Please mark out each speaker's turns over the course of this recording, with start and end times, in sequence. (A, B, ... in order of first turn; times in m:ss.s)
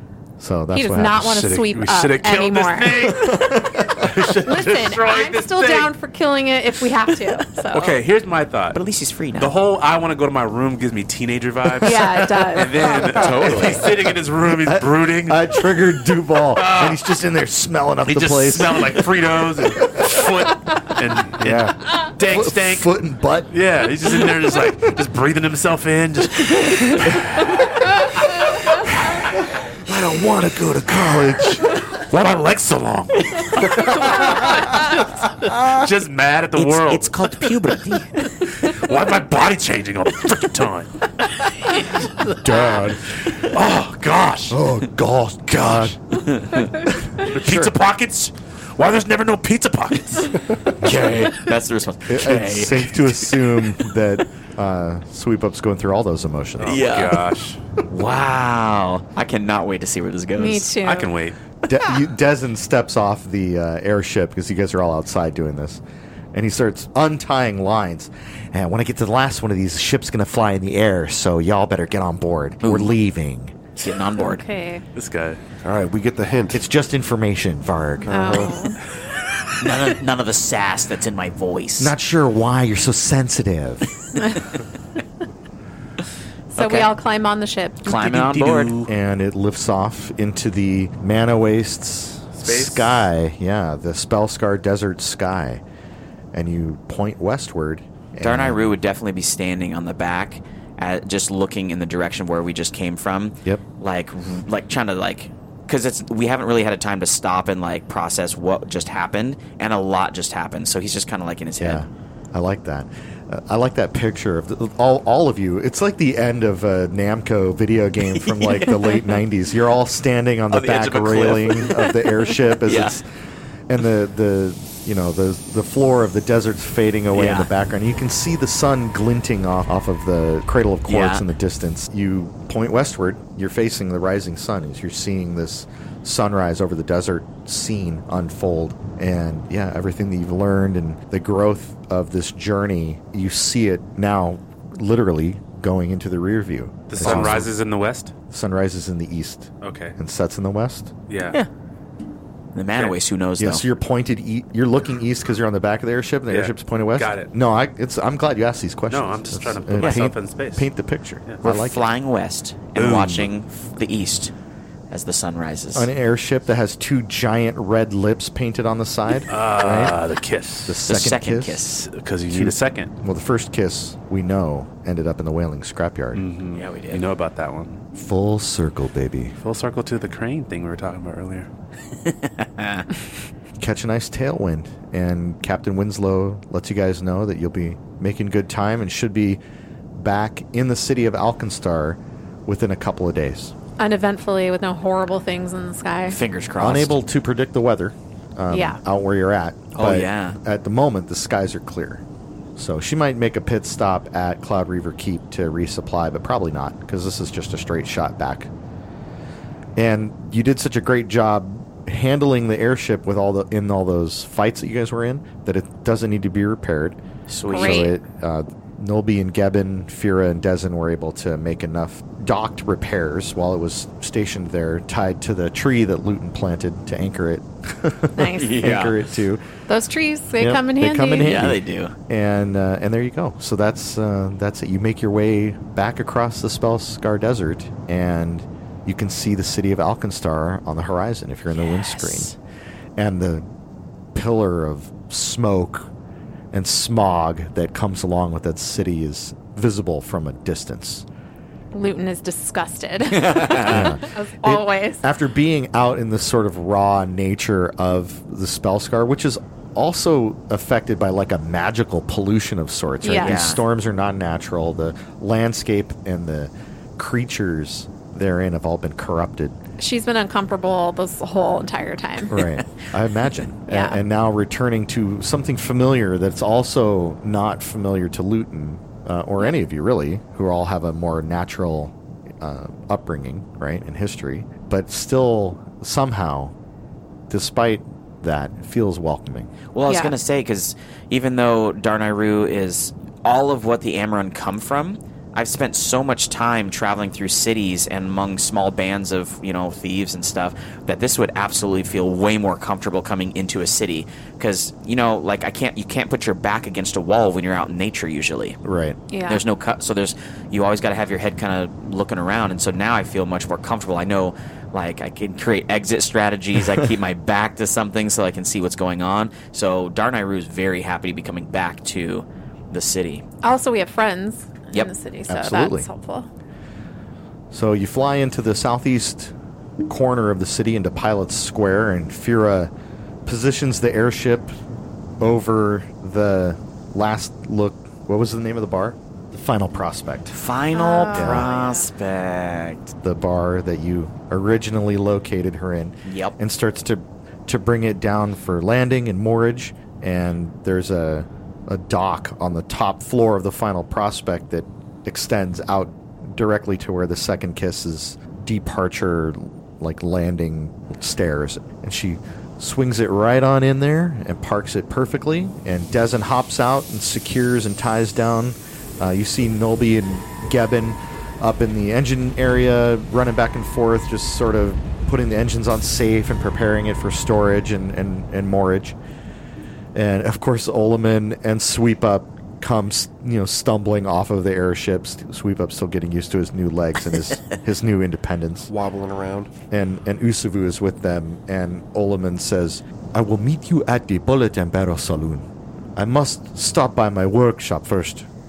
0:00.4-0:01.3 A
0:00.7-0:03.3 B
0:01.2-0:05.9 C
0:03.3-0:03.9 A
0:04.4-0:08.0 B
0:07.1-0:08.8 C
0:08.7-0:09.5 D
0:09.4-0:15.9 C
0:11.8-0:13.1 B
0:13.2-0:13.8 D
0:14.5-0:20.2 A
0:16.5-0:17.0 C
0:18.1-0:23.0 C
0:21.4-0:23.5 A
0:23.5-0:27.5 C
0:28.9-0:37.5 C
0:30.1-0:31.7 A
0:36.6-0:38.1 D
0:38.4-0:40.9 C
0:42.4-0:43.0 A
0:43.2-0:44.6 C
0:44.5-0:46.0 A
0:47.2-0:51.4 C
0:47.2-0:47.8 A
0:50.8-0:53.3 D
0:52.1-0:56.8 A
0:56.6-0:57.6 C
0:56.6-0:57.2 D
0:57.9-1:00.8 D
1:00.4-1:01.1 B
1:00.8-1:01.4 C
1:01.7-1:05.8 A
1:06.3-1:13.6 A
1:12.6-1:13.0 D
1:13.8-1:14.4 D
1:14.2-1:14.8 B
1:15.0-1:15.4 C
1:15.6-1:16.6 E
1:16.5-1:18.4 A
1:18.0-1:18.6 E
1:18.1-1:18.8 B
1:19.6-1:21.9 D
1:21.8-1:23.9 A
1:26.5-1:28.0 B
1:26.6-1:26.9 D
1:27.8-1:28.7 D
1:27.9-1:28.9 C
1:28.9-1:35.6 A
1:32.4-1:33.0 C
1:36.3-1:38.7 A
1:38.2-1:51.8 D
1:51.6-2:03.0 A
1:58.1-1:58.7 D
2:00.5-2:01.9 D
2:02.6-2:03.0 D
2:03.7-2:27.5 A
2:07.1-2:07.5 D
2:10.9-2:11.3 D
2:26.9-2:28.1 C
2:28.3-2:30.9 A
2:29.6-2:30.0 C
2:31.1-2:31.4 C
2:32.6-2:33.6 D
2:33.4-2:41.9 A
2:36.3-2:37.3 C
2:38.9-2:40.7 C
2:39.8-2:40.1 D
2:41.4-2:44.3 D
2:42.8-2:43.3 A
2:44.9-2:45.9 D
2:45.8-2:50.0 A
2:49.3-2:50.8 C
2:50.7-2:51.7 A
2:50.9-2:51.9 D
2:51.8-2:52.9 C
2:52.3-2:56.2 A
2:56.1-2:57.8 C
2:56.5-2:57.0 D
2:58.0-2:59.4 A
2:59.4-3:01.5 C
3:02.3-3:02.8 D
3:03.6-3:09.4 A
3:09.9-3:13.5 A
3:13.8-3:16.2 B
3:16.1-3:17.0 D
3:16.6-3:22.0 A
3:18.5-3:18.8 B
3:19.8-3:20.4 D
3:22.6-3:28.5 A
3:29.8-3:37.0 A
3:37.3-3:37.9 D
3:37.5-3:38.0 B
3:37.5-3:49.4 A
3:48.2-3:48.6 B
3:48.3-3:49.0 D
3:49.7-3:51.4 B
3:50.4-4:02.3 A
3:51.2-3:51.9 D
4:01.5-4:02.4 D
4:03.0-4:03.5 A
4:04.1-4:05.9 A
4:06.5-4:11.0 A
4:11.7-4:15.0 B
4:13.1-4:13.9 D
4:13.6-4:29.6 A
4:23.0-4:23.4 B
4:23.1-4:23.6 D
4:29.8-4:32.4 B
4:32.3-4:46.5 A
4:33.7-4:34.0 B
4:47.3-4:49.5 A
4:49.7-5:08.6 D
4:49.9-4:50.2 B
5:08.6-5:09.0 A
5:09.1-5:09.4 B
5:09.2-5:23.2 D
5:23.4-5:26.3 B
5:25.3-5:25.9 A
5:27.5-5:29.3 A
5:29.9-5:32.7 A
5:33.3-5:34.6 A
5:35.2-5:40.3 A
5:40.3-5:42.9 D
5:40.7-5:41.9 B
5:41.1-5:41.5 A
5:43.0-6:19.0 A
5:46.0-5:46.4 D
6:19.9-6:28.7 A
6:28.7-6:29.5 E
6:29.7-6:38.3 A